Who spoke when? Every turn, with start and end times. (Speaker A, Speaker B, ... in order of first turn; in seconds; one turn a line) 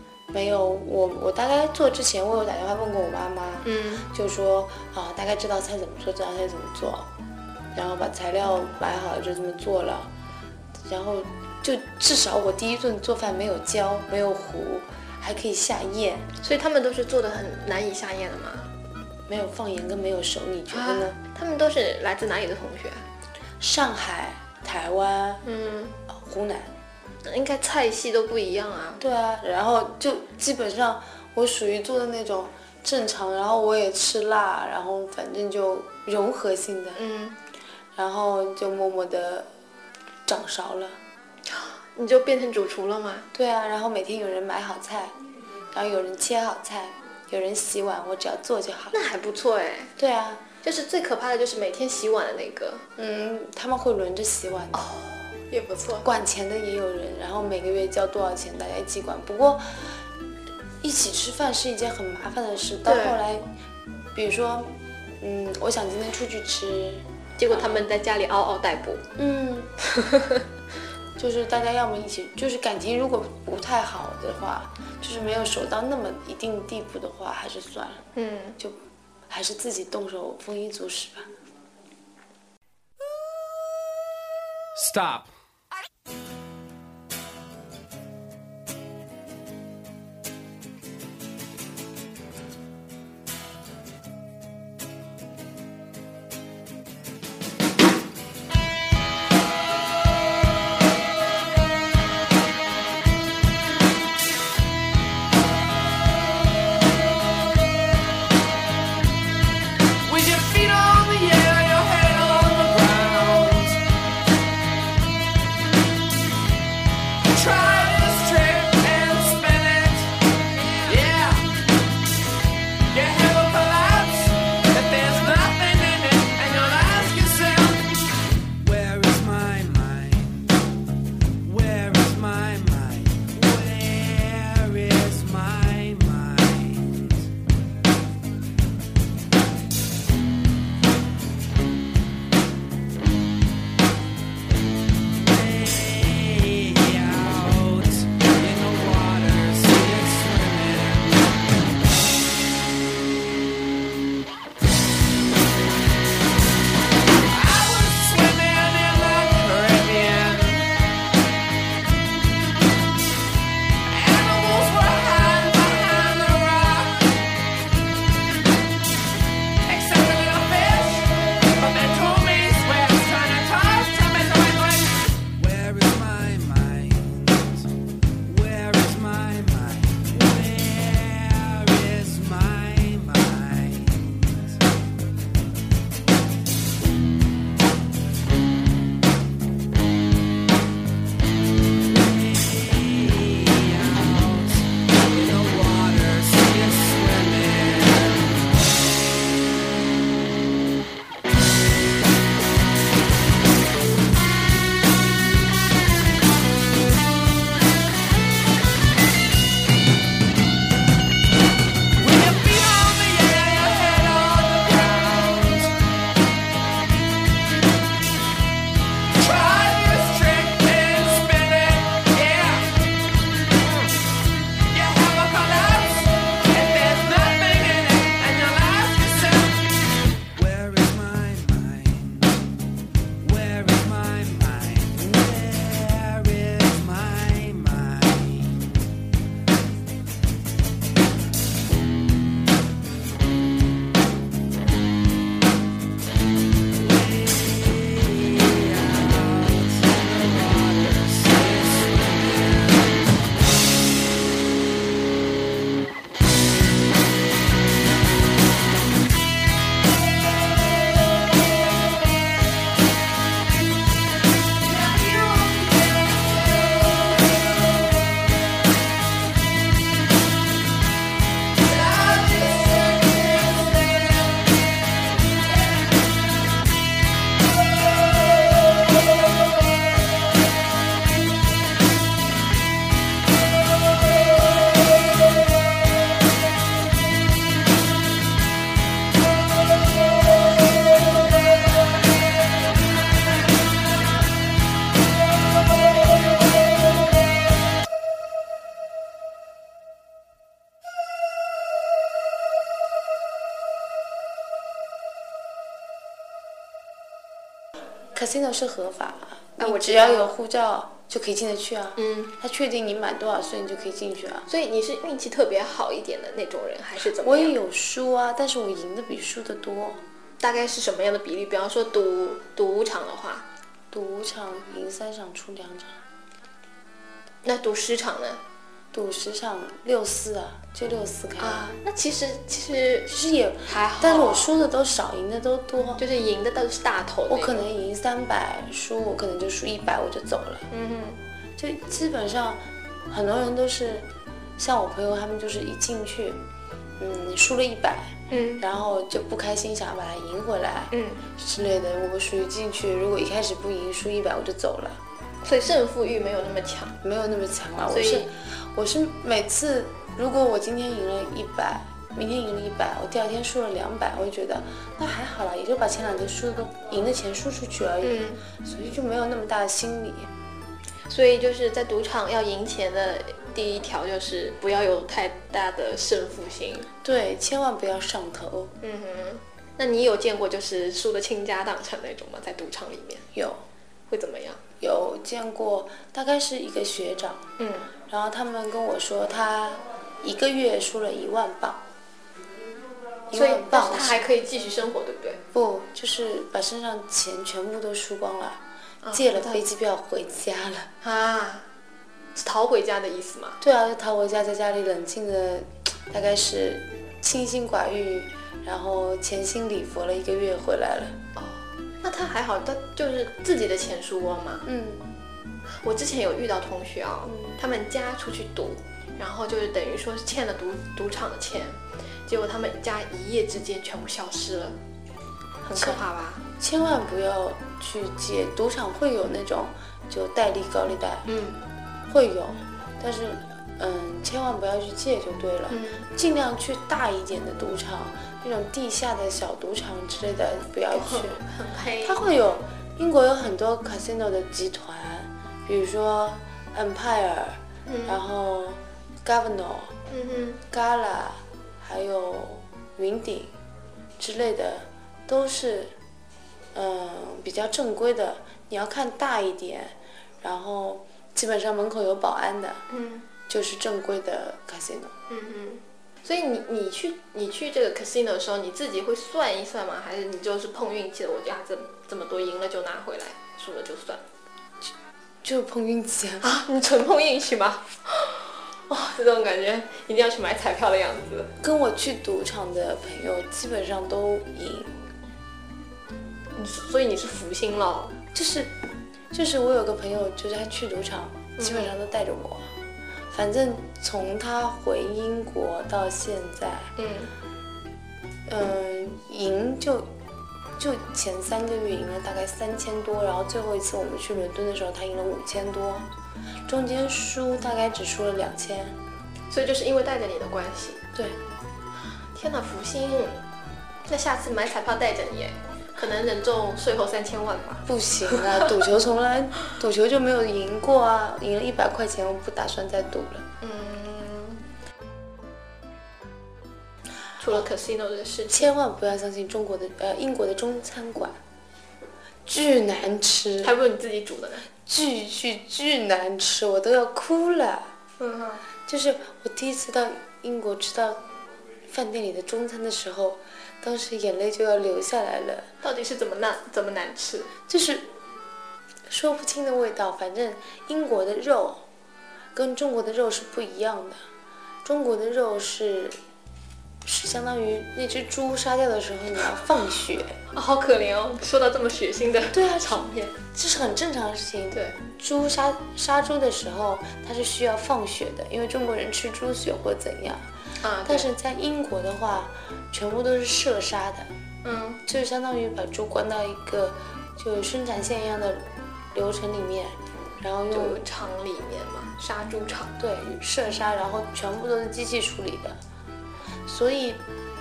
Speaker A: 0.3-7.1
Speaker B: 3.6-4.1
Speaker A: 7.7-10.1
Speaker A: 10.9-16.3
Speaker B: 16.4-18.7
Speaker A: 19.3-21.2
Speaker B: 20.7-23.1
Speaker A: 23.6-25.4
Speaker B: 25.4-26.0
Speaker A: 26.1-26.7
Speaker B: 27.2-29.0
Speaker A: 29.0-37.0
Speaker B: 37.0-37.4
Speaker A: 38.0-39.5
Speaker A: 40.3-41.0
Speaker B: 41.5-43.3
Speaker A: 43.3-45.2
Speaker A: 45.7-49.0
Speaker B: 48.9-49.9
Speaker A: 50.0-50.4
Speaker B: 50.6-52.9
Speaker A: 53.0-54.8
Speaker B: 54.7-56.1
Speaker A: 56.0-59.6
Speaker A: 60.8-63.5
Speaker B: 62.9-63.2
Speaker A: 64.1-67.9
Speaker B: 67.4-69.0
Speaker A: 69.2-69.7
Speaker B: 69.8-70.5
Speaker A: 71.2-78.0
Speaker B: 78.2-78.6
Speaker A: 78.6-81.3
Speaker C: 84.8-85.3
Speaker C: 110.0-113.8
Speaker C: 117.3-120.1
Speaker C: 120.8-121.5
Speaker C: 122.9-128.0
Speaker C: 128.6-130.6
Speaker C: 131.4-137.3
Speaker C: 145.1-151.6
Speaker C: 157.3-160.7
Speaker C: 163.9-167.2
Speaker C: 169.6-177.7
Speaker C: 178.2-184.6
Speaker C: 191.9-198.4
Speaker C: 212.0-215.7
Speaker C: 219.2-222.9
Speaker C: 224.7-229.7
Speaker C: 230.3-232.5
Speaker C: 233.2-238.8
Speaker C: 246.8-253.2
Speaker C: 264.7-267.4
Speaker C: 271.6-274.4
Speaker A: 308.1-314.5
Speaker B: 309.6-310.4
Speaker B: 312.0-312.3
Speaker B: 314.5-317.6
Speaker A: 317.2-320.0
Speaker B: 320.4-323.5
Speaker A: 323.9-326.0
Speaker B: 327.4-328.4
Speaker A: 328.9-331.7
Speaker B: 331.4-333.1
Speaker A: 333.1-336.0
Speaker B: 333.7-334.5
Speaker B: 336.0-337.7
Speaker A: 337.3-340.7
Speaker B: 340.7-341.2
Speaker A: 341.6-344.1
Speaker A: 344.6-346.4
Speaker A: 347.0-355.0
Speaker B: 348.3-348.6
Speaker B: 350.9-351.2
Speaker B: 355.4-357.0
Speaker A: 357.0-370.3
Speaker B: 357.9-358.3
Speaker B: 368.0-368.4
Speaker B: 371.1-376.9
Speaker A: 377.0-378.7
Speaker B: 378.8-383.3
Speaker A: 383.4-383.6
Speaker B: 384.1-384.6
Speaker A: 384.8-387.5
Speaker B: 387.6-387.9
Speaker A: 388.1-391.8
Speaker A: 393.3-394.2
Speaker B: 393.3-395.4
Speaker A: 395.5-398.6
Speaker B: 399.0-399.6
Speaker A: 399.1-400.9
Speaker B: 401.0-401.7
Speaker B: 402.4-403.6
Speaker A: 403.6-411.2
Speaker B: 411.4-414.6
Speaker A: 414.6-415.1
Speaker B: 415.8-424.8
Speaker A: 417.3-417.6
Speaker B: 425.6-426.4
Speaker A: 425.7-426.0
Speaker A: 426.6-431.3
Speaker B: 431.3-431.6
Speaker A: 432.1-441.4
Speaker B: 435.7-436.1
Speaker B: 440.9-442.2
Speaker A: 442.0-449.9
Speaker B: 447.9-448.2
Speaker B: 450.1-450.6
Speaker A: 450.7-453.5
Speaker A: 454.2-455.9
Speaker A: 456.7-462.8
Speaker B: 462.9-463.3
Speaker A: 463.5-465.1
Speaker B: 465.3-474.2
Speaker A: 475.4-476.5
Speaker B: 476.4-481.5
Speaker A: 481.6-484.9
Speaker B: 486.6-488.2
Speaker A: 488.3-488.7
Speaker A: 489.3-492.7
Speaker B: 491.6-491.9
Speaker A: 493.3-496.9
Speaker B: 497.0-497.3
Speaker A: 498.5-500.1
Speaker A: 500.8-506.1
Speaker A: 506.7-509.0
Speaker B: 509.5-511.0
Speaker B: 512.3-513.4
Speaker B: 514.1-518.8
Speaker A: 517.9-523.5
Speaker B: 523.6-524.6
Speaker B: 527.4-528.7
Speaker A: 528.5-531.4
Speaker A: 532.5-533.8
Speaker B: 533.6-534.7
Speaker A: 534.9-537.9
Speaker B: 538.2-538.7
Speaker A: 538.9-541.2
Speaker A: 541.9-545.7
Speaker B: 545.8-547.5
Speaker A: 547.7-548.1
Speaker A: 549.1-551.8
Speaker A: 552.5-554.2
Speaker A: 554.8-556.2
Speaker A: 557.0-560.4
Speaker B: 560.5-563.4
Speaker A: 562.5-570.5
Speaker B: 570.8-571.3
Speaker A: 571.0-574.3
Speaker B: 574.6-575.0
Speaker A: 575.1-581.0
Speaker B: 580.7-582.9
Speaker A: 583.0-585.8
Speaker A: 586.7-587.2